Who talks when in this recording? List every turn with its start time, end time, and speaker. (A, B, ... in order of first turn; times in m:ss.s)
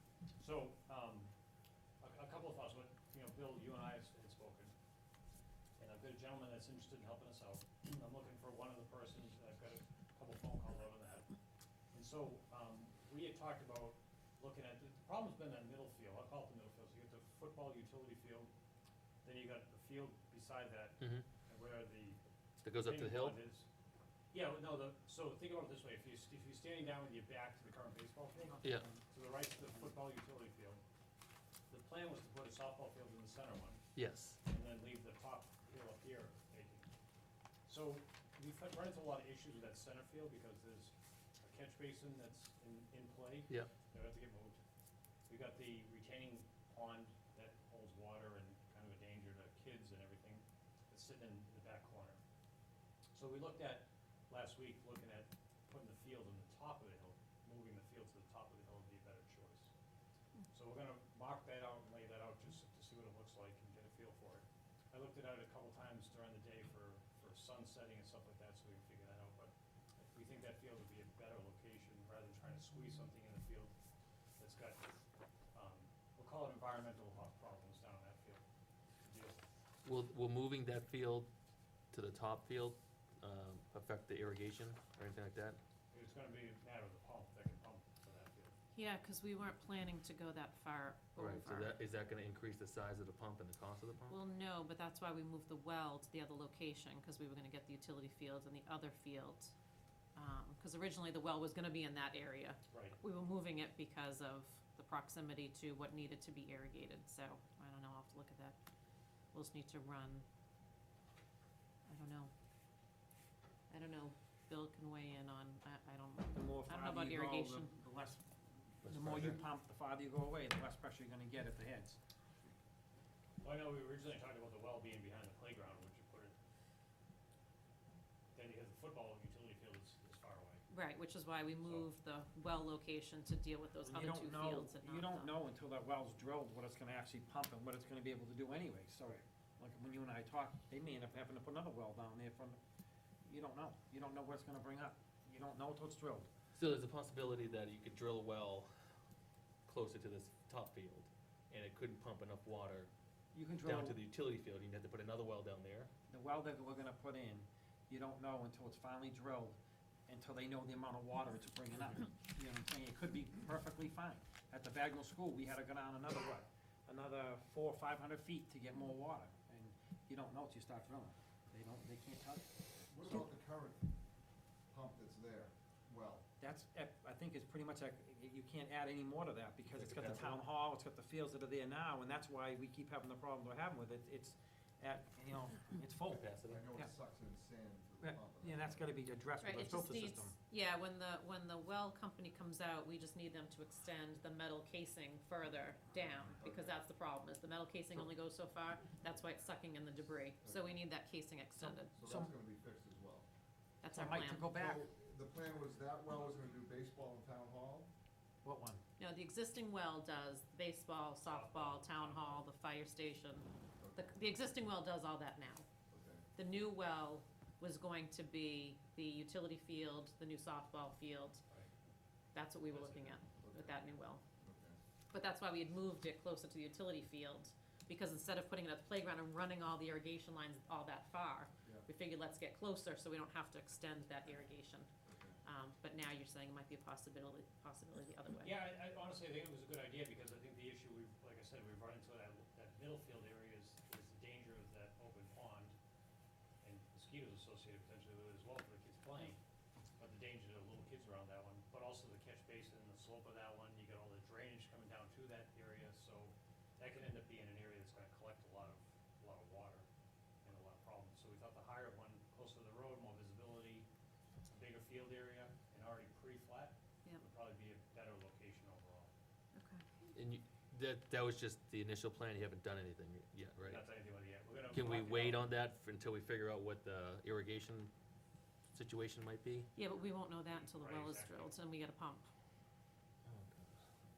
0:00.4-0:01.3 A
0:02.0-0:04.7 A
0:05.8-0:11.3 A
0:11.9-0:18.5 A
0:19.2-0:22.2 A
0:21.0-0:21.2 B
0:22.6-0:23.4 B
0:22.8-0:23.6 A
0:24.3-0:30.8 A
0:31.7-0:33.8 A
0:33.9-0:34.4 B
0:34.4-0:36.9 A
0:37.6-0:44.6 A
0:45.3-0:52.2 A
0:53.1-0:59.7 A
1:00.5-1:13.7 A
1:14.4-1:14.9 A
1:15.5-1:18.4 A
1:19.0-1:19.4 A
1:19.8-1:21.3 B
1:21.9-1:25.6 B
1:25.9-1:28.5 A
1:28.7-1:31.7 C
1:31.2-1:34.2 B
1:34.1-1:39.5 C
1:40.2-1:48.6 C
1:42.7-1:43.0 A
1:49.3-1:50.2 C
1:51.9-1:52.3 C
1:53.7-1:57.7 C
1:56.3-2:02.0 D
1:58.8-1:59.4 B
2:03.4-2:06.4 A
2:08.3-2:10.6 A
2:10.7-2:15.3 C
2:13.8-2:22.6 D
2:23.3-2:26.3 D
2:26.5-2:28.9 B
2:29.6-2:32.9 B
2:33.3-2:34.0 D
2:33.6-2:35.9 B
2:36.1-2:52.5 D
2:52.9-2:54.0 E
2:54.7-2:56.2 E
2:56.4-3:06.2 D
2:59.6-3:00.4 B
3:06.0-3:08.9 E
3:06.1-3:06.7 B
3:08.0-3:10.3 D
3:09.4-3:21.9 C
3:16.3-3:16.8 E
3:20.4-3:20.8 E
3:21.6-3:22.3 D
3:21.9-3:23.2 E
3:23.8-3:24.5 C
3:23.9-3:24.8 D
3:24.5-3:27.9 E
3:28.4-3:28.8 D
3:29.0-3:35.6 C
3:31.2-3:32.4 A
3:33.8-3:34.1 E
3:35.9-3:36.2 E
3:36.4-3:41.4 C
3:42.3-3:44.2 C
3:42.7-3:43.2 A
3:43.4-3:43.8 E
3:44.4-3:44.8 E
3:45.1-3:54.9 C
3:55.0-3:55.4 E
3:55.4-3:58.5 C
3:58.4-4:05.7 A
4:06.6-4:09.4 A
4:10.0-4:19.8 A
4:20.4-4:23.9 A
4:24.5-4:29.1 A
4:29.5-4:29.9 C
4:30.1-4:33.9 B
4:33.6-4:35.5 A
4:34.7-4:37.9 B
4:38.7-4:39.7 B
4:39.8-4:42.3 C
4:40.5-4:41.6 A
4:43.2-4:43.7 B